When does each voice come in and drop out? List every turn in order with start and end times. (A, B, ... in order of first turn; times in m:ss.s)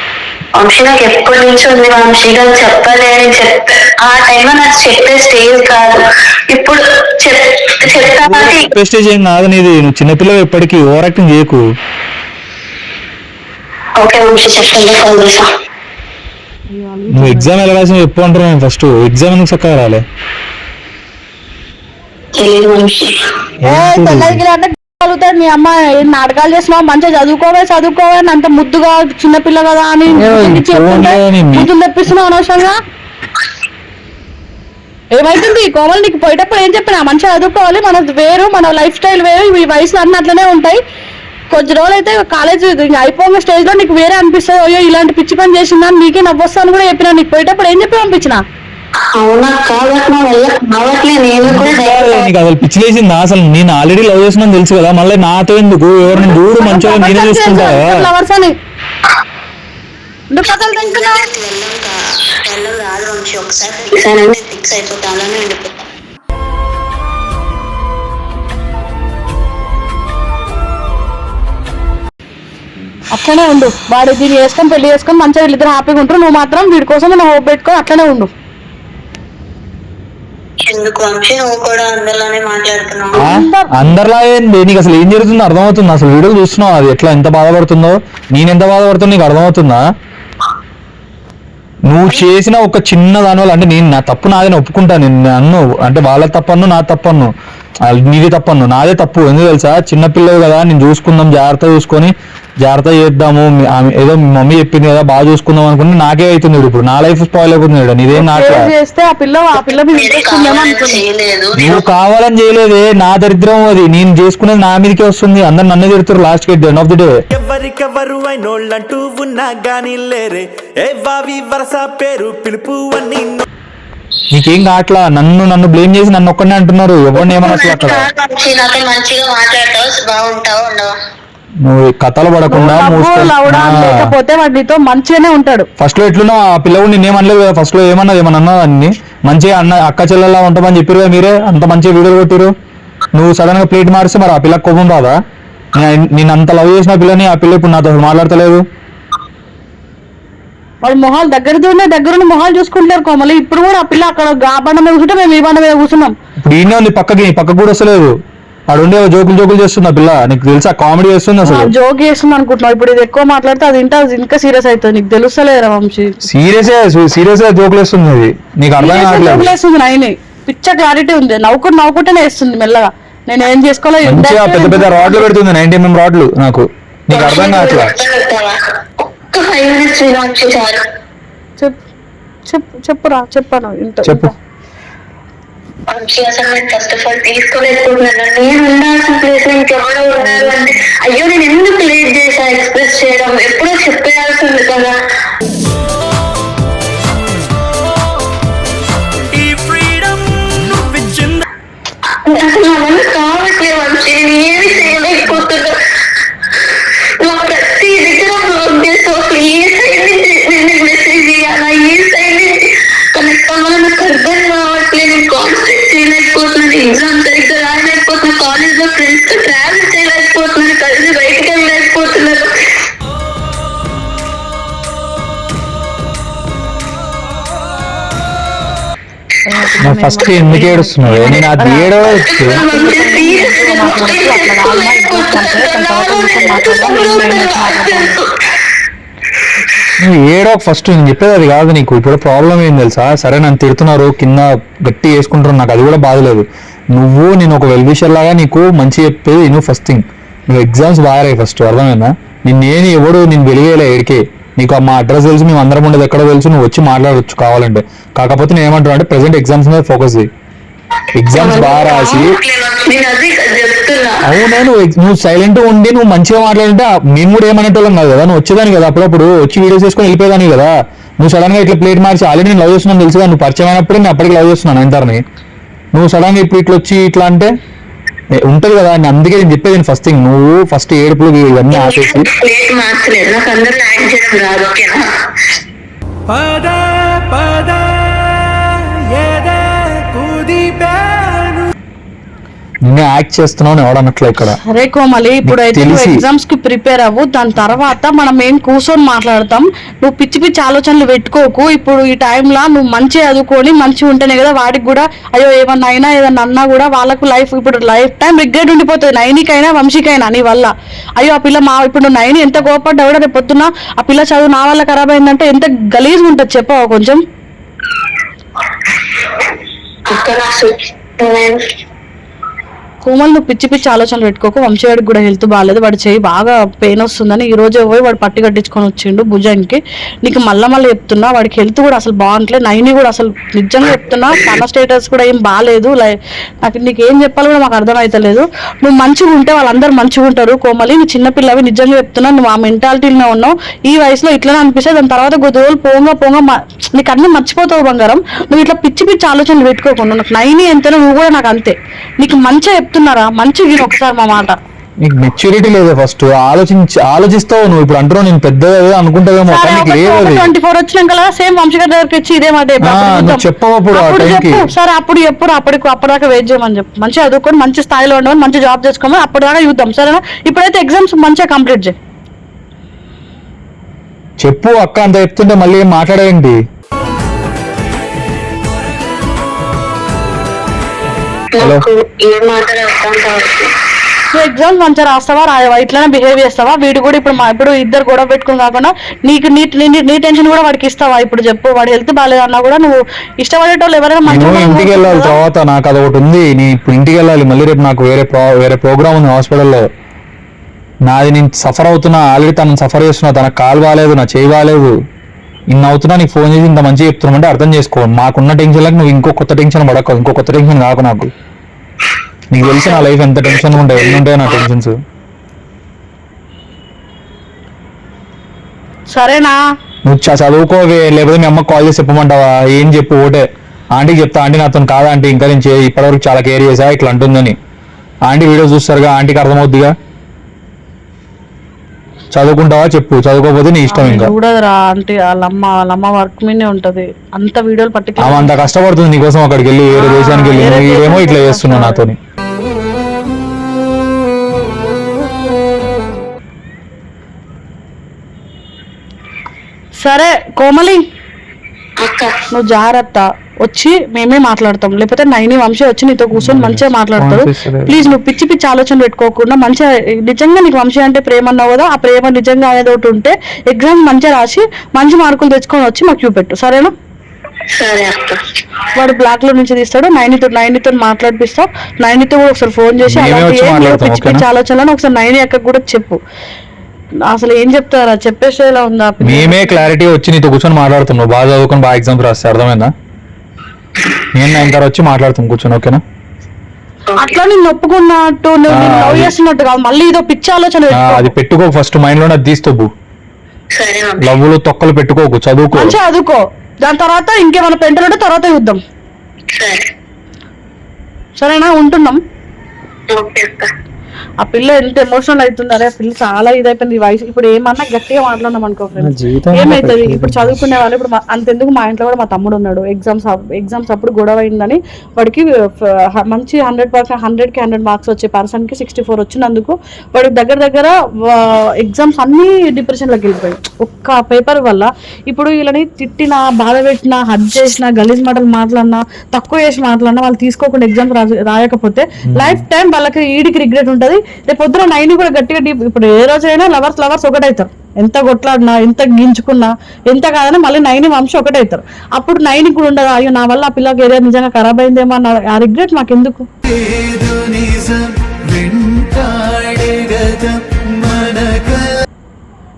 0:00.6-0:08.7 A
0:07.8-0:11.6 B
0:14.0-0:15.5 A
0:16.7-0:17.6 C
0:17.1-0:20.0 B
0:22.4-0:23.2 A
0:23.6-0:24.4 B
0:23.6-0:32.8 C
0:30.1-0:31.7 B
0:35.1-0:40.8 C
0:41.5-0:48.4 C
0:49.2-0:52.2 A
0:51.4-0:58.1 B
0:56.4-0:58.6 C
1:00.3-1:01.3 C
1:00.4-1:05.7 A
1:13.1-1:18.3 C
1:20.7-1:23.2 A
1:23.2-1:24.0 C
1:23.2-1:29.8 B
1:31.9-1:37.3 B
1:37.9-1:48.7 B
1:48.1-1:51.0 C
1:49.8-1:51.8 A
1:51.6-1:57.1 B
1:57.3-2:03.4 D
2:04.3-2:08.1 B
2:07.2-2:11.0 A
2:11.6-2:14.1 B
2:12.5-2:15.7 C
2:15.8-2:22.5 B
2:23.1-2:25.2 B
2:25.8-2:28.6 B
2:30.8-2:36.1 C
2:36.4-2:38.2 B
2:38.7-2:41.7 B
2:41.4-2:46.1 C
2:46.2-2:49.5 B
2:48.8-2:55.2 C
2:54.0-2:57.9 B
2:57.1-2:58.6 A
2:59.3-3:00.8 A
3:02.5-3:04.3 C
3:04.1-3:04.3 B
3:05.9-3:14.9 A
3:10.2-3:10.6 C
3:19.3-3:21.4 D
3:22.1-3:25.8 A
3:26.6-3:32.6 A
3:33.1-3:42.4 A
3:49.5-3:58.2 C
3:49.8-3:52.6 B
3:52.3-3:58.5 A
4:00.0-4:20.3 B
4:21.2-4:22.3 B
4:21.4-4:24.2 A
4:24.2-4:35.2 B
4:35.9-4:37.5 B
4:38.4-4:42.3 B
4:41.7-4:45.0 A
4:46.3-4:51.7 D
4:52.9-4:54.6 B
4:54.6-5:17.2 C
4:55.4-4:56.2 B
5:20.1-5:21.6 A
5:23.0-5:54.6 C
5:55.0-6:00.5 B
5:59.5-6:12.0 C
6:02.8-6:04.7 B
6:14.4-6:16.6 B
6:21.5-6:23.7 A
6:24.3-6:35.4 C
6:34.2-6:39.8 B
6:41.1-6:44.9 B
6:45.7-6:51.3 B
6:52.5-6:55.0 B
6:59.1-6:59.6 C
7:00.1-7:07.6 B
7:08.3-7:09.9 B
7:12.3-7:14.3 B
7:13.9-7:18.5 C
7:18.2-7:22.2 B
7:19.9-7:22.1 C
7:30.0-7:31.0 C
7:32.0-7:32.4 A
7:32.5-7:46.9 C
7:36.3-7:38.2 B
7:47.8-7:48.4 A
7:48.9-7:56.2 C
7:53.1-7:54.4 B
7:57.3-7:59.9 C
7:59.2-8:02.9 B
8:04.3-8:06.0 B
8:07.1-8:07.4 A
8:07.2-8:11.3 C
8:08.7-8:09.3 B
8:10.9-8:12.9 B
8:13.8-8:14.4 A
8:14.2-8:16.0 B
8:15.7-8:18.8 C
8:19.5-8:19.9 A
8:21.4-8:22.2 C
8:23.1-8:23.7 A
8:24.4-9:06.5 C
8:29.0-8:30.8 B
8:52.3-8:52.6 B
9:06.7-9:11.9 D